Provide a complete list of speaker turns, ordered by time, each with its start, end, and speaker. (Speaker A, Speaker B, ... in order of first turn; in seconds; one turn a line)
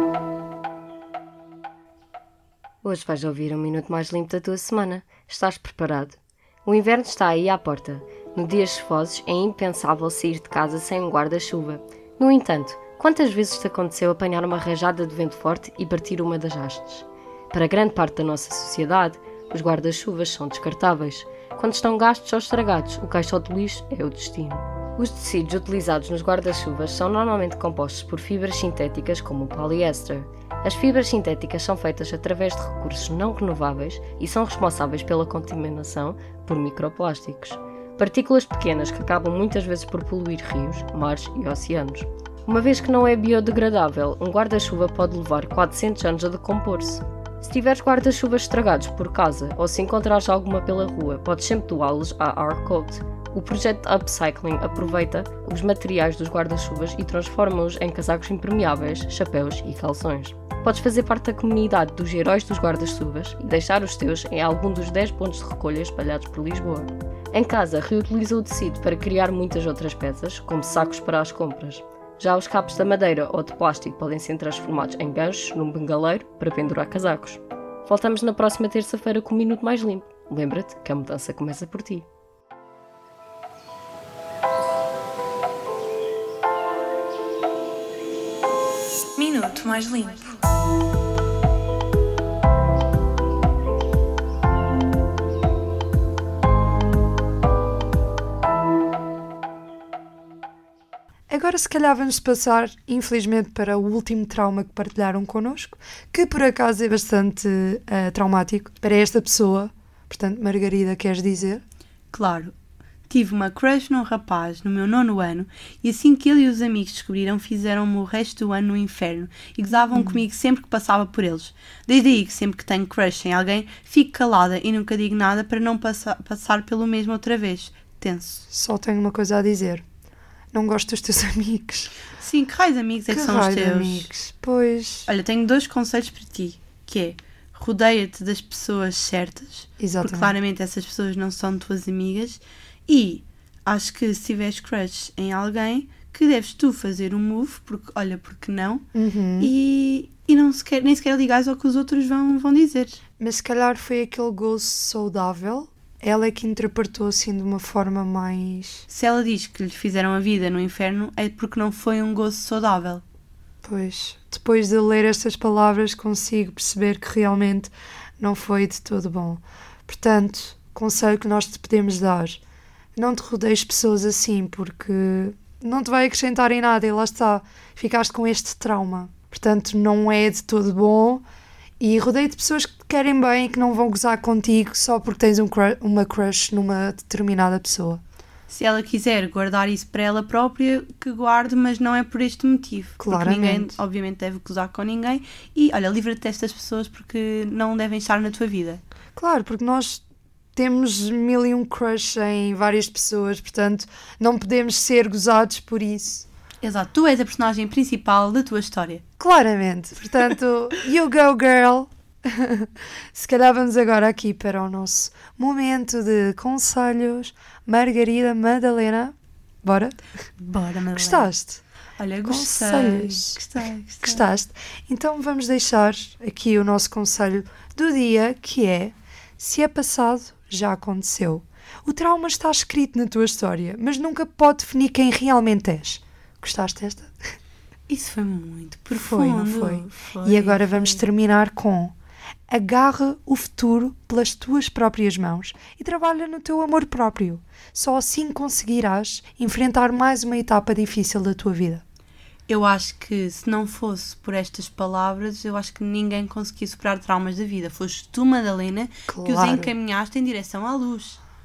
Speaker A: 2.8-82.1
Speaker B: 89.2-90.3
Speaker C: 101.3-111.6
Speaker B: 112.1-112.5
Speaker B: 113.1-128.4
Speaker C: 119.8-120.2
Speaker C: 128.5-129.8
Speaker C: 130.5-131.9
Speaker B: 132.2-134.1
Speaker C: 133.1-135.1
Speaker B: 135.1-148.8
Speaker C: 139.8-140.3
Speaker C: 148.9-149.5
Speaker B: 149.4-153.0
Speaker C: 153.2-158.9
Speaker B: 158.9-163.0
Speaker C: 163.6-172.4
Speaker C: 173.0-181.2
Speaker C: 181.8-188.0
Speaker B: 188.5-198.8
Speaker C: 193.0-193.8
Speaker C: 199.2-200.0
Speaker C: 200.6-206.3
Speaker B: 206.6-209.0
Speaker C: 209.2-220.0
Speaker B: 220.4-221.3
Speaker C: 220.9-221.6
Speaker B: 222.0-224.2
Speaker C: 222.2-223.4
Speaker C: 224.0-237.3
Speaker B: 237.9-241.0
Speaker C: 238.9-241.9
Speaker C: 242.5-251.8
Speaker B: 252.5-261.2
Speaker C: 259.1-259.7